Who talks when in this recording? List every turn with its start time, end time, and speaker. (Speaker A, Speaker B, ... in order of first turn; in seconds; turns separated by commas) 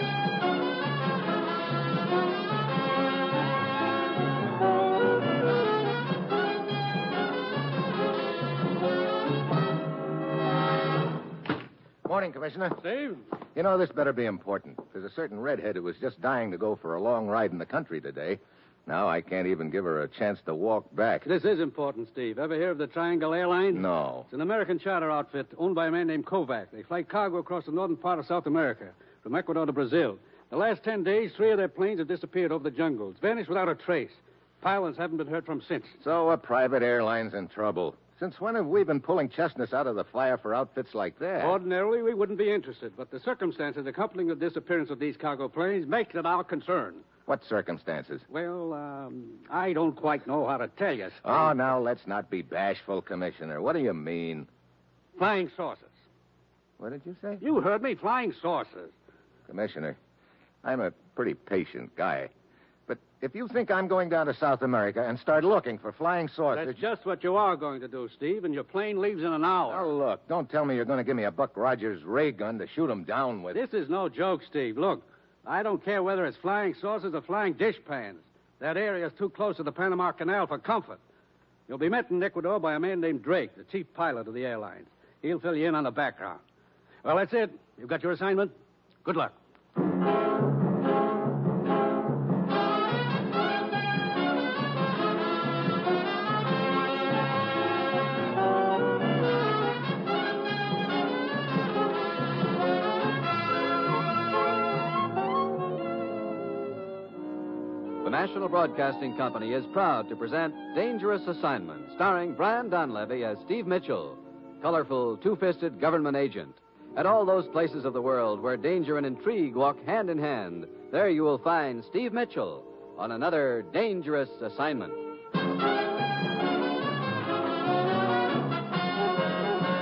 Speaker A: 12.0-12.8, Speaker B: 12.8-13.2, Speaker A: 13.5-21.3, Speaker B: 21.2-36.0, Speaker A: 23.7-24.3, Speaker A: 36.0-41.6, Speaker B: 41.4-47.0, Speaker A: 47.3-48.2, Speaker B: 48.3-51.5, Speaker A: 51.2-54.5, Speaker B: 55.1-55.9, Speaker A: 56.8-57.4, Speaker B: 57.4-58.9, Speaker A: 59.5-60.0, Speaker A: 60.6-62.3, Speaker A: 62.9-66.8, Speaker B: 66.5-69.9, Speaker A: 69.7-73.6, Speaker B: 73.5-81.0, Speaker B: 81.7-86.4, Speaker B: 87.0-88.5, Speaker B: 89.0-89.3, Speaker C: 108.0-125.0